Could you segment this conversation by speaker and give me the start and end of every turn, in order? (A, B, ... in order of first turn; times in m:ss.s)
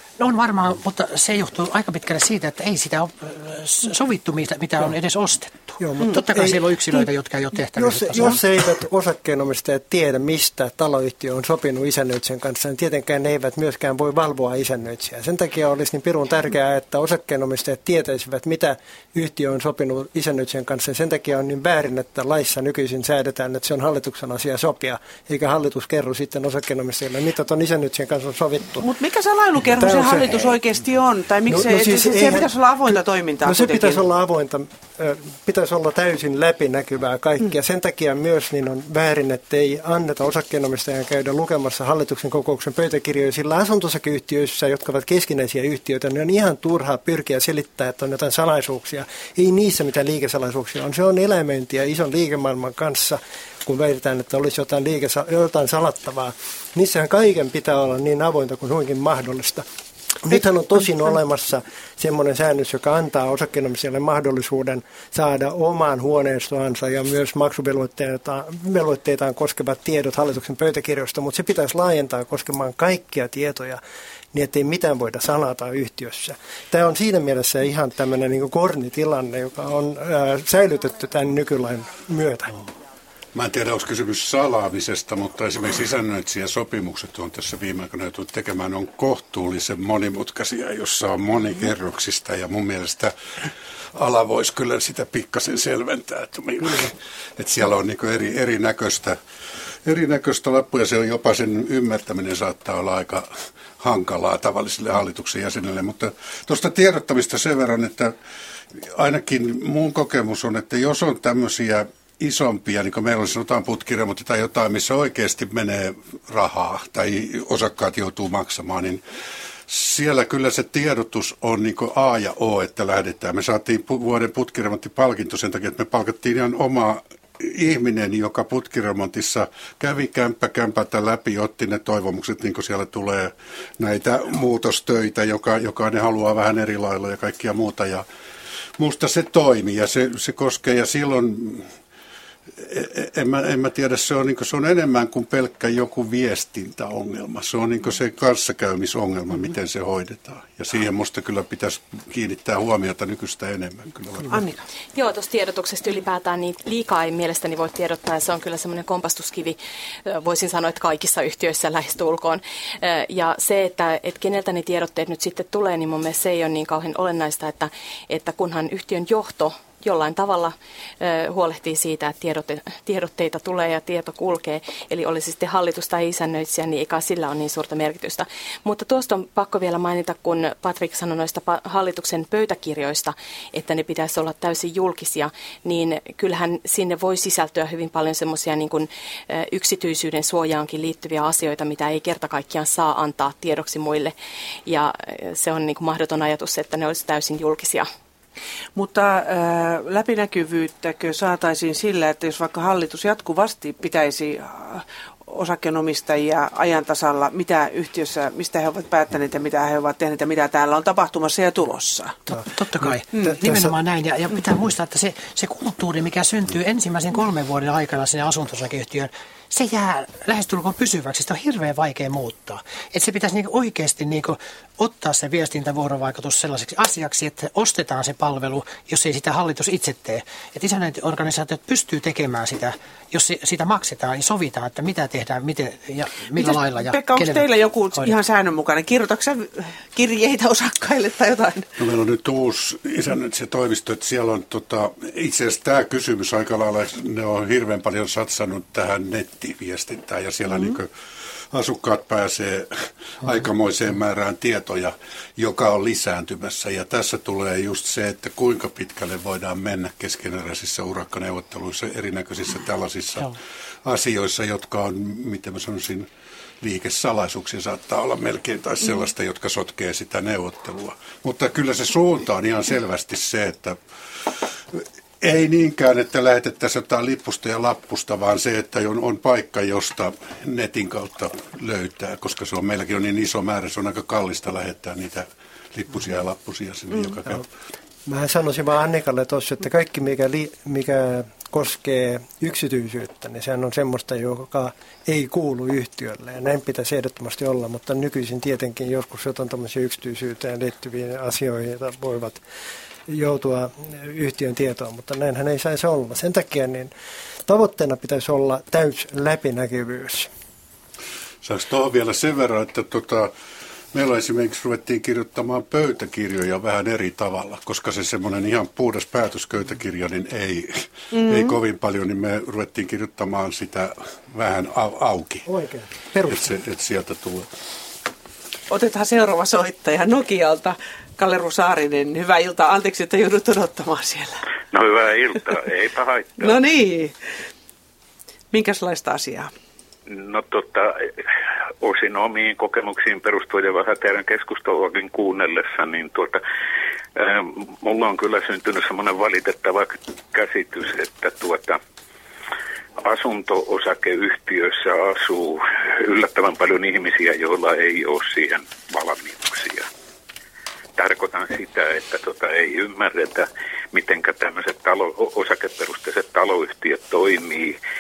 0:00.2-0:08.4 A
0:05.8-0:06.6 B
0:07.8-0:28.9 B
0:28.8-0:34.0 C
0:29.8-0:30.6 B
0:31.5-0:59.7 B
1:00.2-1:13.8 B
1:14.3-1:22.6 B
1:23.3-1:39.2 D
1:39.8-1:43.3 D
1:43.8-1:48.1 D
1:48.8-1:59.0 D
1:59.7-2:18.0 D
2:18.8-2:21.7 D
2:22.6-2:34.4 D
2:34.3-2:34.6 C
2:34.9-3:14.1 E
3:14.7-3:17.9 E
3:18.8-3:32.2 C
3:32.3-3:33.7 B
3:32.5-3:58.1 A
3:56.4-4:01.7 C
4:01.8-4:10.9 D
4:10.5-4:10.8 C
4:11.5-4:26.1 D
4:26.6-4:33.8 D
4:34.7-4:47.4 D
4:48.1-5:02.4 B
5:03.1-5:06.9 B
5:07.5-5:10.3 B
5:11.4-5:13.3 D
5:13.9-5:25.4 D
5:21.1-5:21.6 C
5:25.5-5:26.5 B
5:26.3-5:27.5 D
5:28.7-5:34.4 C
5:34.7-5:36.6 F
5:36.4-5:37.1 C
5:38.5-5:39.5 C
5:40.1-5:41.1 F
5:41.8-5:46.4 F
5:47.2-5:51.8 F
5:53.0-5:59.9 F
6:01.0-6:07.8 F